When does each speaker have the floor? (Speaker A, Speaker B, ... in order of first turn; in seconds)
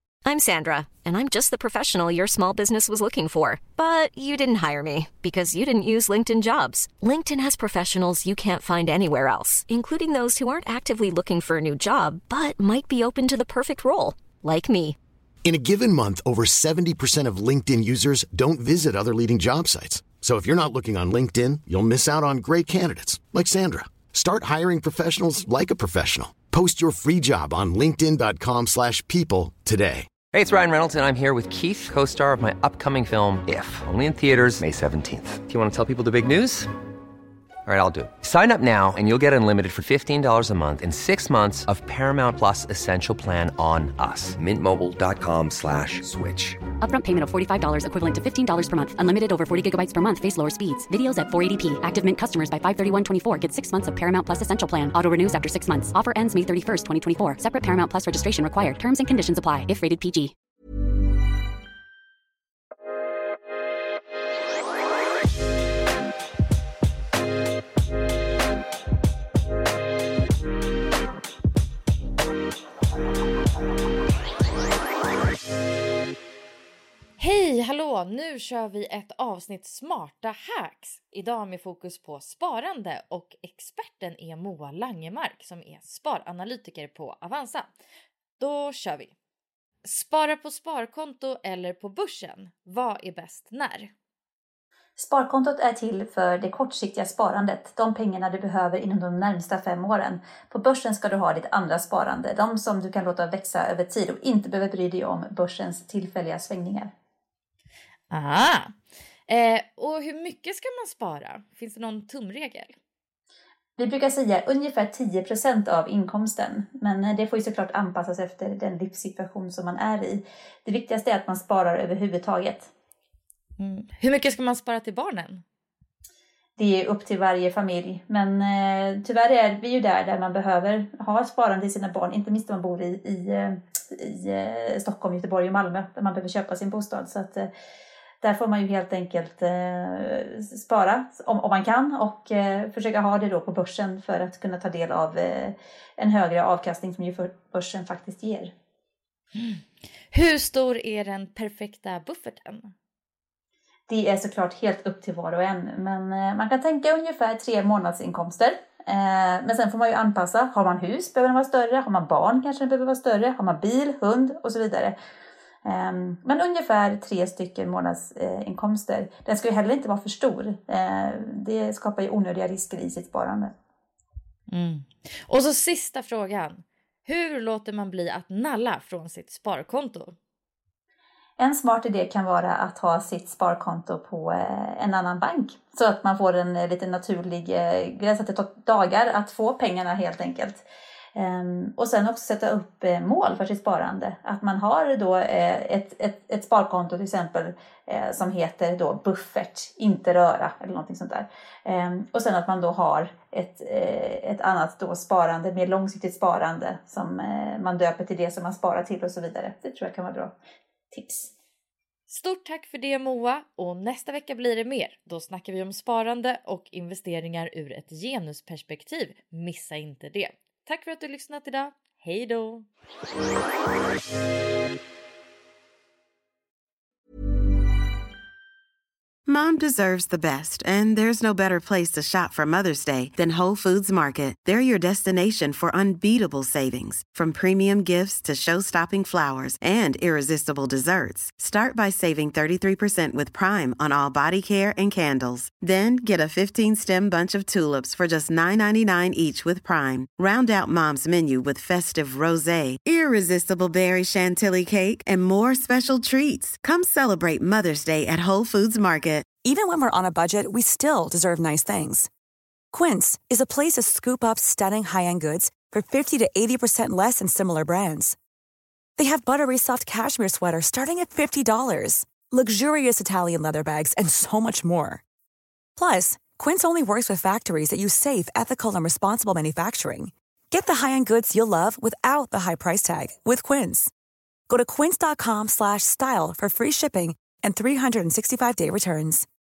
Speaker A: 0.2-15.0
Speaker B: 15.4-30.1
Speaker C: 30.3-36.7, 37.7-45.4
Speaker D: 46.8-60.3
Speaker E: 77.2-87.7, 88.4-89.1, 89.8-93.9, 108.1-108.8, 109.3-112.8, 123.6-125.4, 149.4-152.7, 174.5-180.2, 212.1-222.7
Speaker F: 95.0-106.9, 113.8-122.7, 126.6-137.5, 138.2-148.5, 153.9-165.0, 165.7-173.5, 181.4-210.3, 210.9-211.3
Speaker G: 229.3-259.3
Speaker H: 259.4-262.1, 262.7-268.2, 269.0-275.0, 275.8-283.9, 284.5-289.3